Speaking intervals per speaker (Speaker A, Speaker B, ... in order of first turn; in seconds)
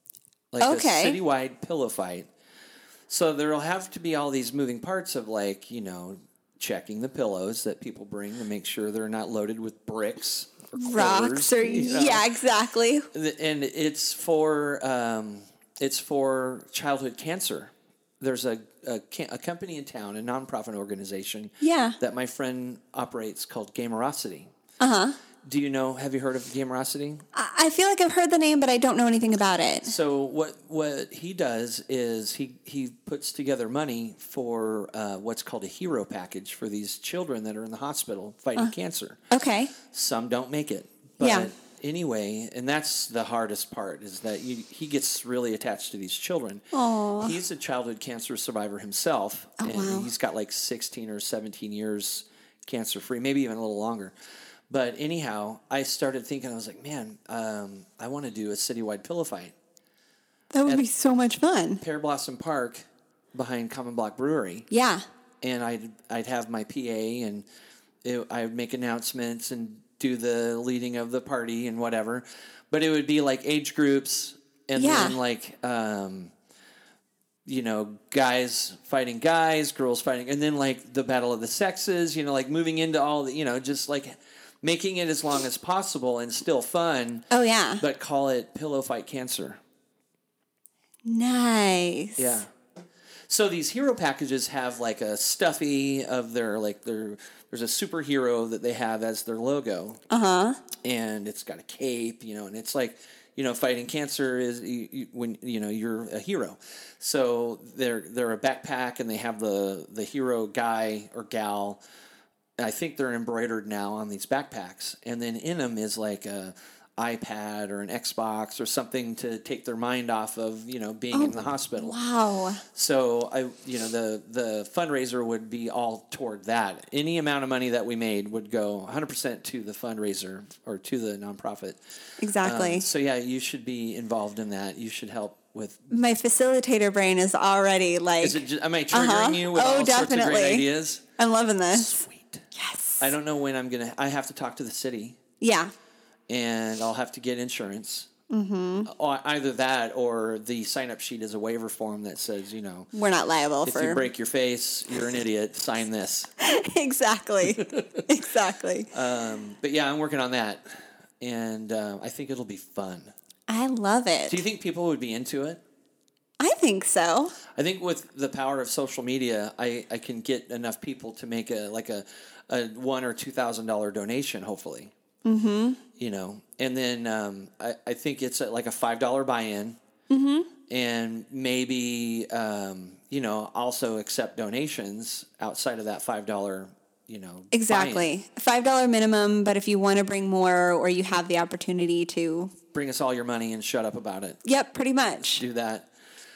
Speaker A: 0.5-2.3, 3.1-12.3, 13.1-24.5, 25.4-27.2, 29.8-39.2, 39.9-54.1, 54.7-59.5, 61.8-64.7, 65.4-67.4, 68.0-76.3, 77.5-87.2, 87.8-89.6, 92.2-92.5, 93.3-100.0, 100.8-111.8, 112.6-122.0, 122.7-131.8, 132.4-135.9, 138.2-141.0, 141.7-142.5, 143.0-145.2, 146.3-148.1, 148.8-152.9, 153.6-156.3, 157.4-158.1, 158.9-160.6, 161.2-163.1, 164.3-165.6, 167.5-174.9, 176.0-179.8, 180.7-188.1, 192.7-194.4, 195.2-195.9
Speaker B: 0.6-1.2, 10.8-13.1, 21.6-22.0, 24.8-25.1, 27.3-29.9, 39.3-39.7, 41.2-41.5, 46.7-47.4, 49.6-50.1, 60.5-61.8, 64.7-65.0, 74.8-75.2, 87.3-87.8, 91.0-92.4, 100.1-100.6, 121.1-122.6, 132.2-132.8, 135.9-140.7, 141.2-141.9, 142.5-143.1, 145.4-145.7, 148.3-148.9, 152.9-154.0, 156.4-158.9, 163.5-164.4, 166.4-167.3, 175.2-175.8, 180.1-180.5, 187.5-192.5, 194.4-195.4